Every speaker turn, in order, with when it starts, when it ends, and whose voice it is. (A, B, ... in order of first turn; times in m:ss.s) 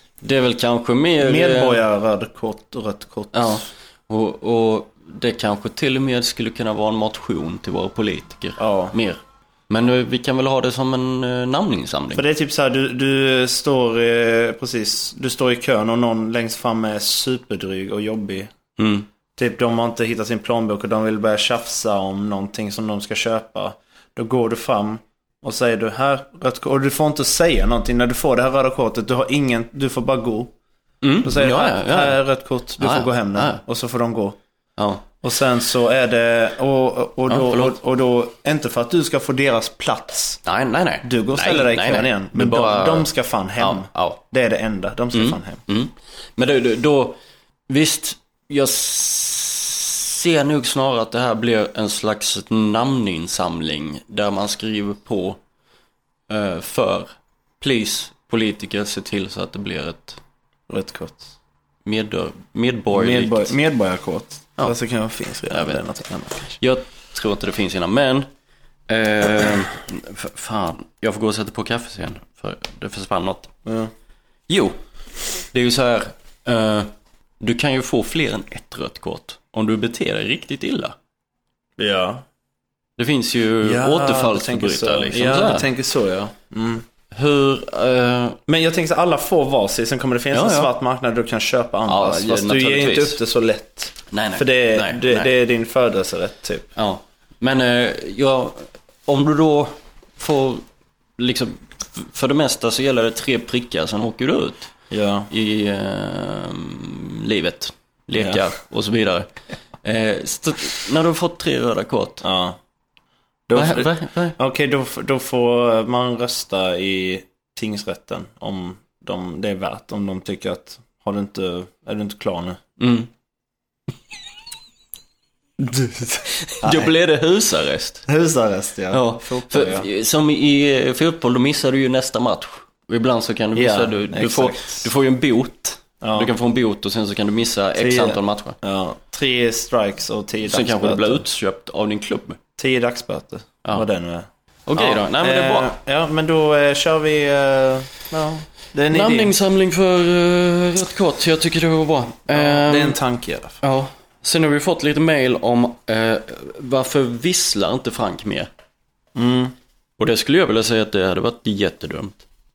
0:00.2-0:01.8 A
0:01.2-0:03.6 B
0:03.3-0:12.2 A
0:08.6-0:09.0 B
0:12.2-0:18.5 B
0:18.8-0:19.1 A
0:19.4-0:30.5 B
0:31.0-0:32.2 A
0:31.2-0:34.4 B
0:32.8-0:33.6 A
0:34.8-0:35.1 A
0:35.2-0:40.4 B
0:37.3-0:37.8 A
0:40.4-0:44.2 A
0:41.0-0:45.6 B
0:45.1-0:55.4 A
0:56.3-1:00.2 A
1:00.7-1:01.3 B
1:01.8-1:03.6 A
1:02.9-1:06.6 B
1:05.5-1:05.8 A
1:06.6-1:08.3 A
1:08.9-1:13.5 A
1:13.6-1:13.9 B
1:14.5-1:14.8 A
1:15.5-1:21.0 A
1:21.8-1:22.2 B
1:23.0-1:25.7 A
1:23.6-1:26.8 B
1:27.1-1:28.4 A
1:28.5-1:36.7 B
1:30.3-1:30.7 A
1:31.9-1:33.2 A
1:34.1-1:35.3 A
1:36.8-1:40.6 A
1:41.2-1:44.7 A
1:44.9-1:45.3 B
1:45.3-1:49.3 A
1:49.8-1:52.2 A
1:52.2-1:52.6 B
1:53.5-2:02.6 B
1:53.5-1:54.4 A
2:02.8-2:03.1 A
2:05.6-2:08.0 A
2:06.6-2:06.9 B
2:08.1-2:09.9 B
2:08.9-2:18.6 A
2:13.6-2:14.9 B
2:16.0-2:16.3 B
2:17.8-2:21.2 B
2:20.5-2:22.4 A
2:22.6-2:29.3 B
2:24.7-2:25.7 A
2:28.9-2:33.0 A
2:32.3-2:33.6 B
2:33.6-2:38.5 A
2:39.2-2:39.6 B
2:40.0-2:42.2 A